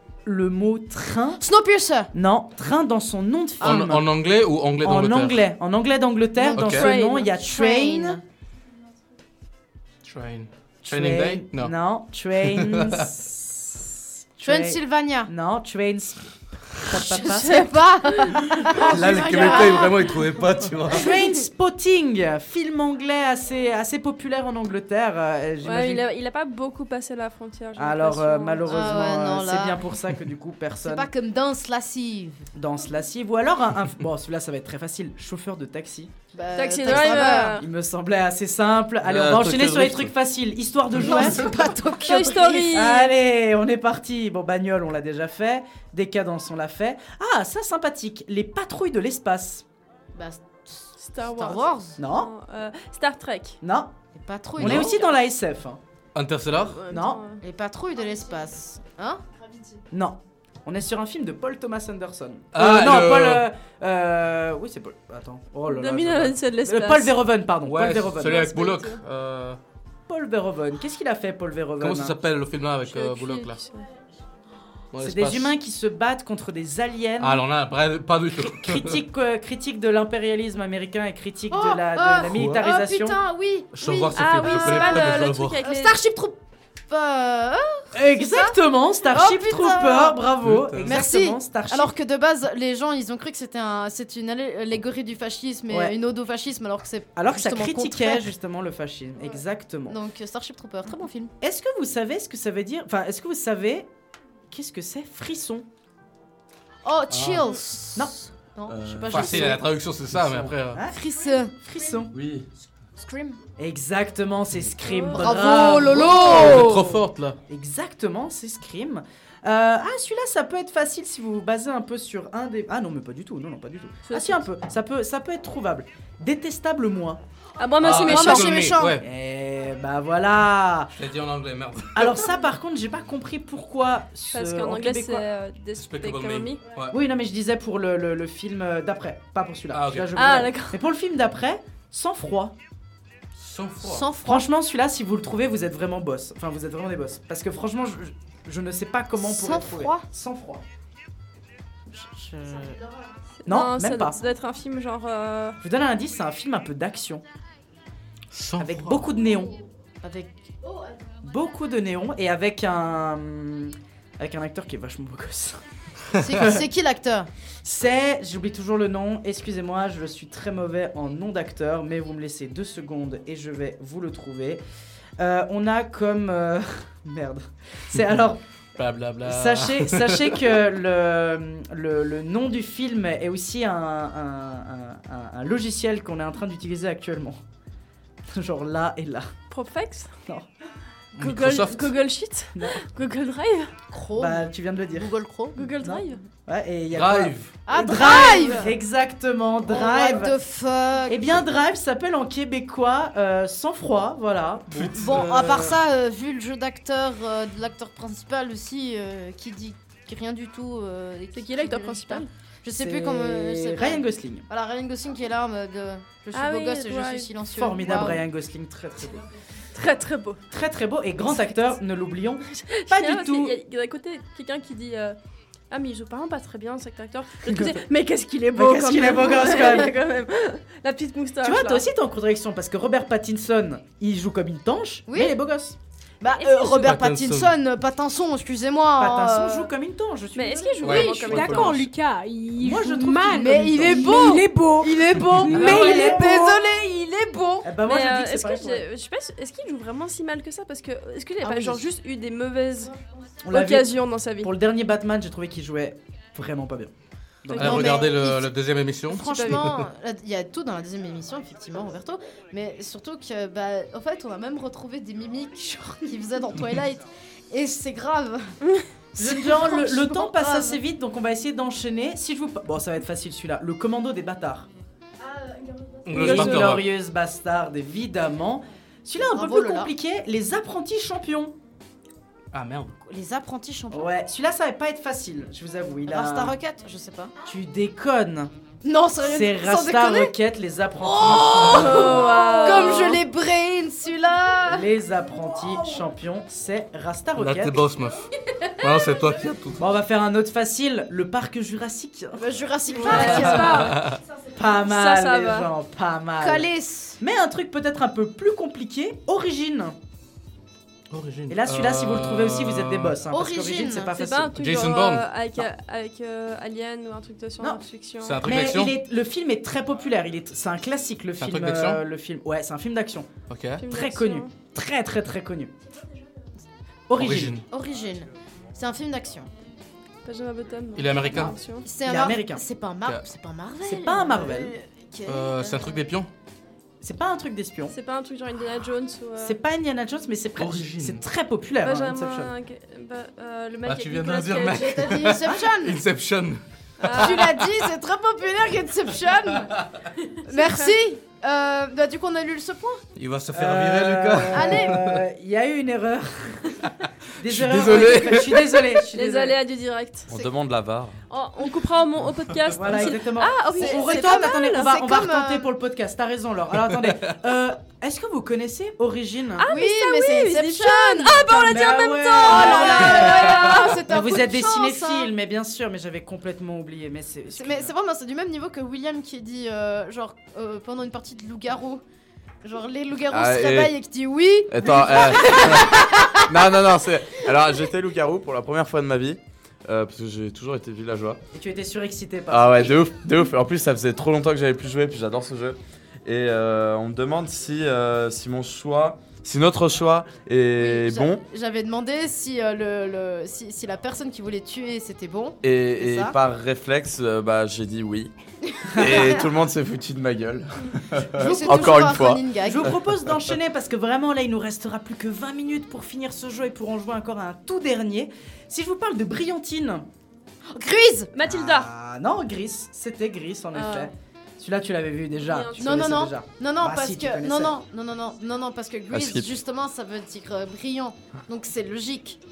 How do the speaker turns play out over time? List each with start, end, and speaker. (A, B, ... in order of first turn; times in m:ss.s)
0:00.3-0:01.4 A
0:01.4-0:02.1 B
0:02.1-0:04.1 A
0:03.6-0:05.4 C
0:04.8-0:08.2 A
0:06.4-0:08.2 B
0:06.6-0:06.9 C
0:06.7-0:07.3 D
0:10.0-0:11.7 C
0:10.8-0:16.2 A
0:12.4-0:13.1 C
0:14.4-0:15.3 B
0:16.8-0:17.7 A
0:16.9-0:20.1 B
0:17.1-0:18.3 D
0:18.8-0:19.7 A
0:18.8-0:21.1 C
0:19.0-0:19.9 D
0:20.9-0:26.1 A
0:25.6-0:28.7 D
0:27.8-0:31.1 A
0:28.7-0:29.8 B
0:30.8-0:32.5 B
0:32.6-0:36.1 A
0:36.3-0:37.6 B
0:36.6-0:37.7 D
0:36.8-0:49.6 A
0:39.0-0:40.1 E
0:40.9-0:43.1 B
0:42.0-0:43.1 D
0:50.1-0:52.0 B
0:51.0-0:53.6 D
0:52.0-0:52.3 A
0:53.6-0:53.9 A
0:54.2-0:55.1 B
0:54.6-0:55.8 A
0:54.6-0:54.9 C
0:56.2-0:56.8 C
0:56.7-0:57.4 D
0:56.9-0:57.2 A
0:57.4-0:59.2 B
0:59.9-1:08.7 A
1:02.5-1:03.4 C
1:05.7-1:07.2 D
1:07.6-1:09.6 C
1:08.3-1:09.0 D
1:10.1-1:12.2 A
1:11.8-1:13.6 C
1:12.8-1:13.8 D
1:14.9-1:15.5 C
1:15.0-1:17.4 A
1:17.2-1:19.0 C
1:18.4-1:23.2 A
1:21.5-1:28.6 B
1:22.3-1:22.6 C
1:23.7-1:25.6 C
1:24.0-1:26.0 D
1:27.9-1:31.9 A
1:29.1-1:30.2 B
1:30.4-1:31.0 C
1:30.8-1:38.3 B
1:35.7-1:36.0 A
1:37.2-1:40.0 A
1:39.9-1:41.3 B
1:41.4-1:43.9 A
1:44.5-1:45.6 A
1:46.8-1:49.7 B
1:47.1-1:47.5 C
1:48.8-1:50.8 C
1:49.1-1:49.5 A
1:50.2-1:51.0 A
1:50.9-1:51.5 B
1:51.6-1:52.1 A
1:52.2-1:52.4 C
1:53.0-1:53.4 B
1:53.6-1:56.9 A
1:54.9-1:55.4 D
1:55.1-1:56.9 B
1:55.9-1:57.4 C
1:57.5-2:07.2 A
2:04.1-2:04.4 D
2:07.6-2:08.5 D
2:07.8-2:09.0 B
2:07.8-2:09.0 C
2:09.0-2:10.9 A
2:11.0-2:12.2 C
2:12.0-2:15.3 A
2:14.3-2:16.8 D
2:15.8-2:17.0 C
2:16.9-2:22.5 A
2:19.7-2:20.1 C
2:20.1-2:20.8 D
2:23.4-2:24.1 C
2:23.8-2:24.5 B
2:24.2-2:30.6 A
2:29.2-2:30.0 B
2:31.9-2:32.8 B
2:33.4-2:35.6 D
2:33.5-2:34.2 A
2:35.6-2:37.2 A
2:38.3-2:39.1 C
2:38.6-2:39.6 A
2:40.0-2:40.5 B
2:41.2-2:45.6 A
2:46.2-2:47.3 B
2:47.6-2:54.6 A
2:55.2-2:58.4 A
2:58.8-3:00.6 C
2:59.2-3:07.4 A
3:08.3-3:09.3 A
3:09.5-3:10.1 D
3:11.2-3:11.9 C
3:11.2-3:13.7 D
3:12.6-3:12.8 A
3:13.9-3:14.4 B
3:14.2-3:15.1 A
3:14.9-3:15.7 B
3:15.6-3:16.2 D
3:15.8-3:20.4 A
3:16.9-3:17.6 C
3:17.7-3:18.8 B
3:19.7-3:21.3 B
3:21.1-3:25.8 A
3:24.7-3:25.2 C
3:24.9-3:38.2 B
3:31.3-3:32.3 D
3:32.8-3:34.5 A
3:36.3-3:37.3 D
3:37.5-3:39.2 A
3:39.8-3:40.4 D
3:40.5-3:43.6 A
3:42.6-3:45.2 D
3:45.7-3:51.9 D
3:47.5-3:47.8 A
3:48.6-3:50.0 A
3:51.4-3:55.8 A
3:55.1-3:55.4 B
3:56.2-3:59.7 B
3:56.3-3:56.9 D
3:56.8-3:57.5 C
3:59.0-4:01.8 A
4:00.3-4:01.8 D
4:00.8-4:01.8 C
4:00.9-4:06.5 F
4:02.6-4:06.5 A
4:03.3-4:04.5 B
4:05.5-4:07.7 B
4:07.6-4:08.9 A
4:07.8-4:12.9 D
4:11.4-4:11.9 B
4:13.4-4:16.9 A
4:13.5-4:14.5 D
4:17.4-4:17.9 A
4:17.5-4:18.5 B
4:17.6-4:19.9 C
4:19.1-4:28.5 B
4:29.1-4:30.8 B
4:29.2-4:34.7 A
4:35.3-4:36.6 B
4:36.0-4:36.8 C
4:36.1-4:41.6 A
4:39.2-4:39.9 B
4:42.5-4:42.9 C
4:43.0-4:44.1 B
4:43.9-4:46.6 A
4:46.1-4:47.4 B
4:47.5-4:48.5 A
4:48.8-4:50.3 B
4:49.2-4:52.7 A
4:51.0-4:54.9 B
4:51.7-4:53.2 D
4:54.7-4:57.8 A
4:57.4-4:58.3 C
4:58.8-4:59.8 C
4:59.8-5:03.9 A
5:02.4-5:04.1 B
5:03.0-5:04.0 D
5:03.8-5:04.2 C
5:04.5-5:10.0 A
5:04.8-5:05.7 D
5:06.4-5:07.2 B
5:11.1-5:13.2 C
5:11.5-5:14.7 A
5:13.3-5:14.2 B
5:14.2-5:18.5 D
5:14.6-5:15.2 C
5:18.2-5:19.0 C
5:18.4-5:23.3 A
5:21.4-5:22.0 C
5:23.5-5:23.8 C
5:23.8-5:24.5 D
5:23.9-5:25.7 A
5:27.1-5:27.6 A
5:27.2-5:27.7 C
5:27.7-5:29.5 B
5:30.2-5:31.9 D
5:31.0-5:31.6 C
5:31.8-5:36.0 B
5:32.0-5:32.6 A
5:33.8-5:34.8 A
5:35.3-5:36.3 C
5:37.0-5:38.0 A
5:37.9-5:39.6 D
5:39.4-5:42.5 A
5:40.6-5:41.2 C
5:41.8-5:45.0 D
5:43.9-5:46.6 C
5:44.7-5:46.0 B
5:47.0-5:47.4 D
5:47.1-5:49.7 B
5:50.5-5:53.0 B
5:50.5-5:50.9 D
5:53.2-5:55.2 C
5:53.5-5:56.8 A
5:54.5-5:55.0 B
5:57.4-5:59.6 A
5:57.4-5:58.8 C
5:59.1-6:00.3 D
6:00.3-6:01.2 E
6:01.3-6:05.0 D
6:02.7-6:09.7 A
6:03.8-6:05.7 B
6:09.6-6:14.0 D
6:09.6-6:11.5 B
6:11.4-6:17.9 A
6:12.4-6:15.3 B
6:17.5-6:22.0 B
6:22.6-6:26.4 B
6:23.3-6:23.9 E
6:24.7-6:31.4 E
6:31.5-6:33.0 A
6:32.5-6:41.4 E
6:40.8-6:46.4 B
6:45.6-6:48.3 E
6:48.8-6:49.5 B
6:49.0-6:52.4 E
6:51.4-6:53.0 B
6:51.5-6:52.0 A
6:52.6-7:00.1 A
7:00.7-7:01.3 B
7:01.3-7:01.9 D
7:01.4-7:07.8 A
7:03.7-7:04.1 D
7:05.4-7:06.2 D
7:05.8-7:12.4 B
7:09.1-7:09.5 E